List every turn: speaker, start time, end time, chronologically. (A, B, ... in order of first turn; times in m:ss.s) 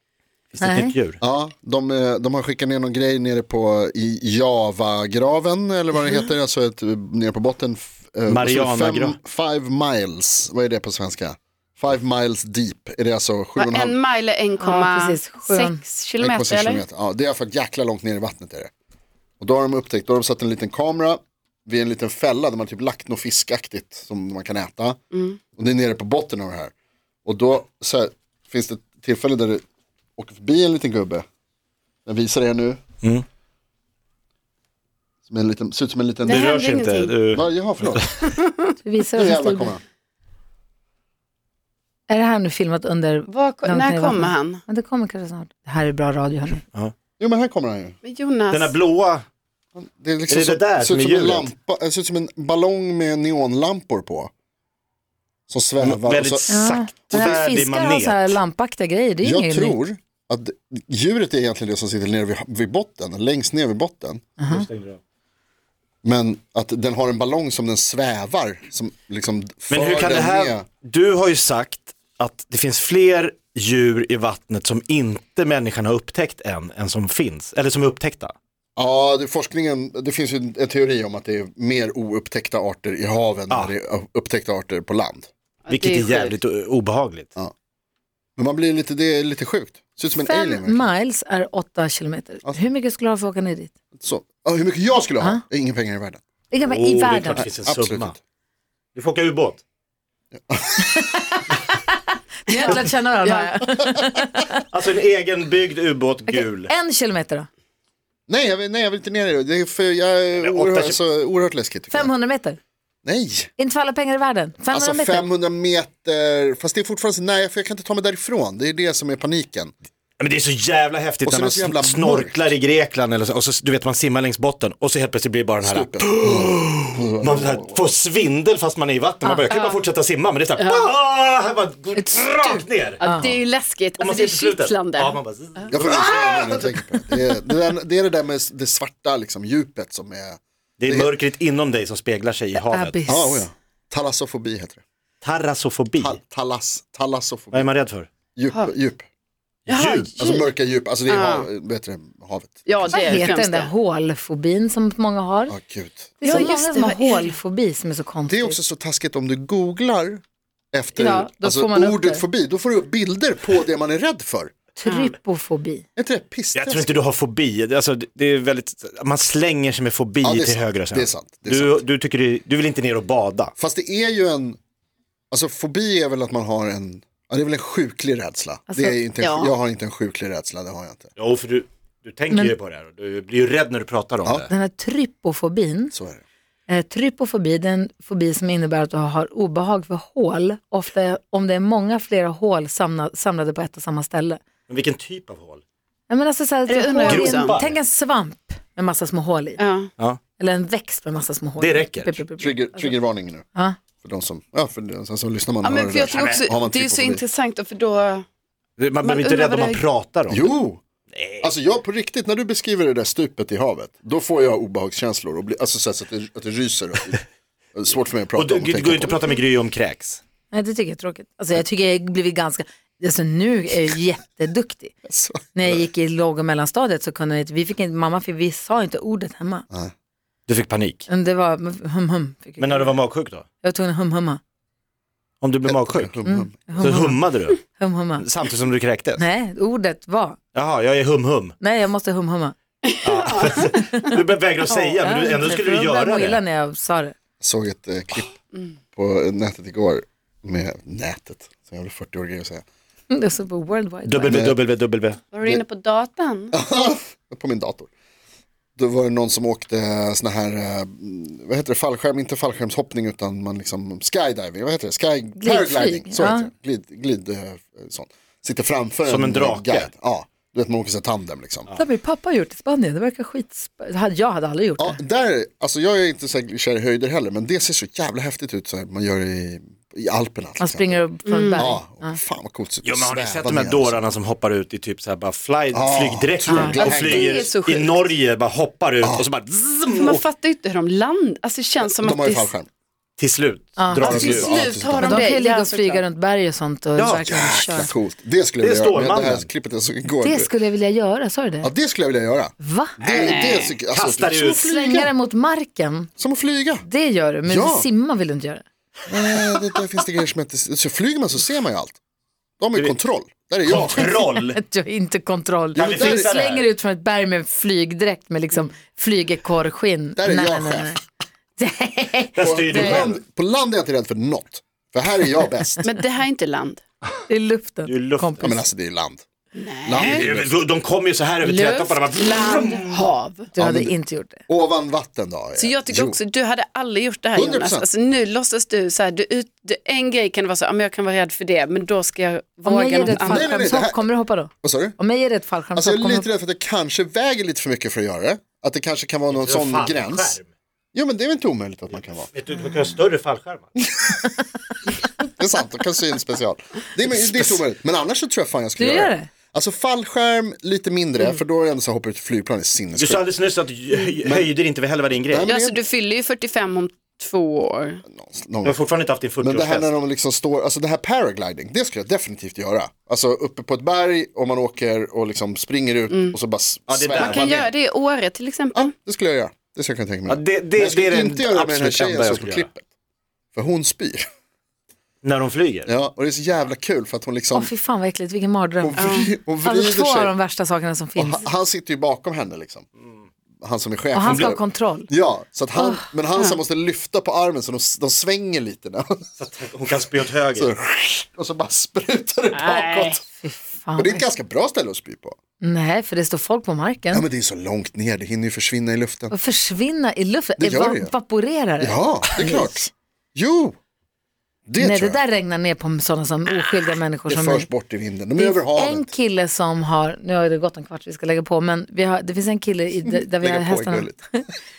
0:00.5-0:01.2 A
0:00.6-0:00.9 B
0:01.2-0:14.0 C
0:08.3-0:09.2 A
0:13.6-0:16.8 D
0:14.6-0:15.8 B
0:16.2-0:18.7 C
0:19.4-0:25.0 C
0:25.1-0:25.4 D
0:25.6-0:26.7 C
0:27.2-0:29.6 C
0:30.2-0:31.3 C
0:32.1-0:32.8 C
0:35.3-0:36.5 C
0:36.3-0:37.2 D
0:36.3-0:38.1 A
0:37.3-0:38.1 C
0:38.2-0:38.7 D
0:38.8-0:39.8 B
0:39.2-0:39.8 C
0:42.1-0:46.6 B
0:43.3-0:44.6 D
0:47.2-0:48.0 C
0:48.0-0:48.8 D
0:48.5-0:49.2 A
0:49.8-0:54.3 C
0:50.3-0:51.5 A
0:55.5-0:57.4 C
0:55.8-0:58.4 A
0:56.5-0:59.8 B
0:59.2-1:04.3 C
1:04.4-1:04.6 B
1:04.5-1:05.0 A
1:06.0-1:10.7 C
1:09.7-1:18.3 A
1:18.8-1:25.3 C
1:25.6-1:26.4 D
1:25.7-1:27.3 A
1:28.4-1:30.9 C
1:30.1-1:33.7 B
1:34.0-1:36.2 C
1:36.5-1:37.5 B
1:36.6-1:38.2 A
1:37.4-1:38.1 C
1:39.0-1:39.6 A
1:40.5-1:41.1 C
1:40.9-1:41.6 B
1:42.5-1:44.6 B
1:42.5-1:43.4 D
1:44.7-1:46.7 A
1:46.3-1:47.5 B
1:48.3-1:52.1 C
1:50.4-1:51.0 A
1:51.9-1:52.6 B
1:53.0-1:53.5 C
1:53.6-1:55.3 B
1:54.7-1:59.7 C
2:00.2-2:13.0 A
2:01.3-2:02.4 C
2:05.6-2:07.9 C
2:09.2-2:09.5 B
2:09.5-2:09.8 D
2:10.6-2:10.9 D
2:12.0-2:12.3 B
2:13.0-2:15.2 D
2:13.0-2:13.3 B
2:14.0-2:16.7 A
2:15.7-2:21.1 C
2:20.8-2:23.1 A
2:22.6-2:23.5 B
2:23.1-2:24.8 C
2:25.2-2:26.2 A
2:26.0-2:27.7 C
2:27.5-2:28.1 A
2:28.4-2:29.1 C
2:29.7-2:30.1 A
2:29.7-2:30.5 D
2:30.2-2:33.4 C
2:31.1-2:31.5 D
2:32.7-2:33.7 D
2:32.9-2:35.6 B
2:35.5-2:36.5 C
2:36.2-2:38.6 B
2:36.2-2:37.4 D
2:38.3-2:44.5 C
2:41.0-2:42.2 B
2:44.8-2:45.8 B
2:44.9-2:45.1 D
2:46.0-2:47.0 C
2:46.6-2:53.5 A
2:50.2-2:51.8 C
2:53.6-2:54.6 C
2:55.3-3:01.1 C
2:58.7-2:59.0 B
2:59.2-2:59.6 D
3:01.2-3:04.5 A
3:04.2-3:04.5 C
3:04.5-3:05.9 B
3:05.9-3:06.2 C
3:06.7-3:14.4 B
3:14.7-3:15.6 A
3:16.1-3:19.6 B
3:16.7-3:17.6 D
3:17.1-3:17.8 A
3:19.6-3:19.9 D
3:20.4-3:23.0 B
3:21.6-3:22.2 A
3:22.4-3:23.4 C
3:24.0-3:27.2 C
3:25.6-3:28.2 D
3:26.1-3:26.5 A
3:28.8-3:30.5 A
3:29.0-3:29.8 D
3:30.3-3:30.8 C
3:31.1-3:31.5 A
3:31.4-3:37.2 C
3:37.7-3:39.2 C
3:38.4-3:40.2 A
3:40.5-3:44.9 B
3:45.1-3:45.9 C
3:45.6-3:49.7 B
3:50.5-3:51.1 A
3:51.1-3:53.0 B
3:52.6-3:53.5 A
3:53.6-3:54.4 B
3:55.4-3:56.1 A
3:55.7-3:56.9 C
3:56.2-3:58.2 B
3:56.8-3:57.6 A
3:58.2-3:59.2 A
3:59.2-4:00.4 B
4:00.5-4:01.6 A
4:01.6-4:02.6 B
4:02.8-4:03.7 D
4:03.0-4:06.4 A
4:03.8-4:04.1 B
4:05.0-4:07.2 B
4:07.4-4:08.4 C
4:08.9-4:12.6 C
4:13.1-4:14.4 B
4:14.0-4:15.2 A
4:14.3-4:14.6 C
4:15.3-4:16.6 D
4:16.5-4:17.9 C
4:18.8-4:31.7 C
4:25.4-4:26.5 B
4:29.0-4:29.9 A
4:31.8-4:35.0 B
4:34.8-4:41.0 C
4:40.6-4:42.2 B
4:41.3-4:41.7 D
4:41.6-4:44.0 C
4:42.8-4:50.2 A
4:45.7-4:47.4 C
4:46.5-4:46.8 B
4:46.7-4:48.1 D
4:49.9-4:52.5 D
4:51.8-4:52.7 C
4:53.2-4:54.5 A
4:53.8-4:54.4 B
4:54.0-4:55.3 C
4:54.0-4:56.0 D
4:55.0-4:57.9 B
4:57.0-4:57.3 A
4:57.1-5:00.5 C
4:58.6-4:59.5 A
5:00.2-5:01.7 B
5:01.6-5:05.1 C
5:02.6-5:03.6 B
5:03.1-5:03.7 D
5:03.9-5:04.7 A
5:04.3-5:06.1 B
5:06.2-5:06.8 C
5:06.8-5:08.6 B
5:07.4-5:07.9 C
5:09.1-5:12.0 C
5:12.6-5:14.1 C
5:13.6-5:14.6 A
5:13.8-5:21.0 B
5:15.8-5:16.3 C
5:15.8-5:16.7 A
5:20.2-5:21.0 C
5:21.6-5:23.1 B
5:22.3-5:23.2 A
5:22.4-5:25.9 C
5:25.8-5:26.8 D
5:27.3-5:28.6 B
5:27.9-5:28.5 A
5:28.4-5:29.2 C
5:29.6-5:30.3 D
5:29.8-5:30.5 C
5:30.0-5:33.1 A
5:31.4-5:33.5 D
5:33.6-5:34.4 B
5:33.6-5:34.0 C
5:34.5-5:36.2 C
5:35.6-5:43.7 D
5:37.3-5:37.9 C
5:42.6-5:46.3 B
5:43.1-5:45.0 C
5:45.8-5:50.4 C
5:49.3-5:50.5 A
5:50.9-5:52.3 C
5:51.9-5:53.8 A
5:55.3-6:03.2 C
5:57.2-5:57.6 A
5:58.8-5:59.3 B
6:03.0-6:05.5 A
6:04.2-6:04.5 C
6:05.3-6:05.8 C
6:05.5-6:08.0 D
6:08.1-6:08.8 C
6:08.6-6:09.9 A
6:09.4-6:17.7 C
6:16.1-6:16.4 D
6:16.9-6:17.5 A
6:17.2-6:18.9 D
6:18.7-6:22.8 C
6:20.3-6:22.7 A
6:23.5-6:24.2 C
6:25.2-6:25.9 A
6:25.9-6:27.7 C
6:27.5-6:31.5 B
6:28.8-6:30.3 C
6:29.0-6:29.3 D
6:31.2-6:32.9 C
6:33.6-6:39.2 C
6:34.1-6:35.1 B
6:34.3-6:34.6 A
6:35.8-6:36.6 B
6:39.4-6:40.7 A
6:40.5-6:43.2 C
6:42.5-6:43.2 D
6:43.4-6:44.3 B
6:44.0-6:45.4 C
6:45.6-6:47.2 B
6:47.1-6:49.4 C
6:49.3-6:52.8 B
6:50.6-6:51.1 C
6:51.8-6:53.8 C
6:54.7-6:55.2 C
6:54.8-6:57.7 B
6:57.3-6:59.1 C
6:58.4-7:04.4 B
7:03.1-7:04.2 C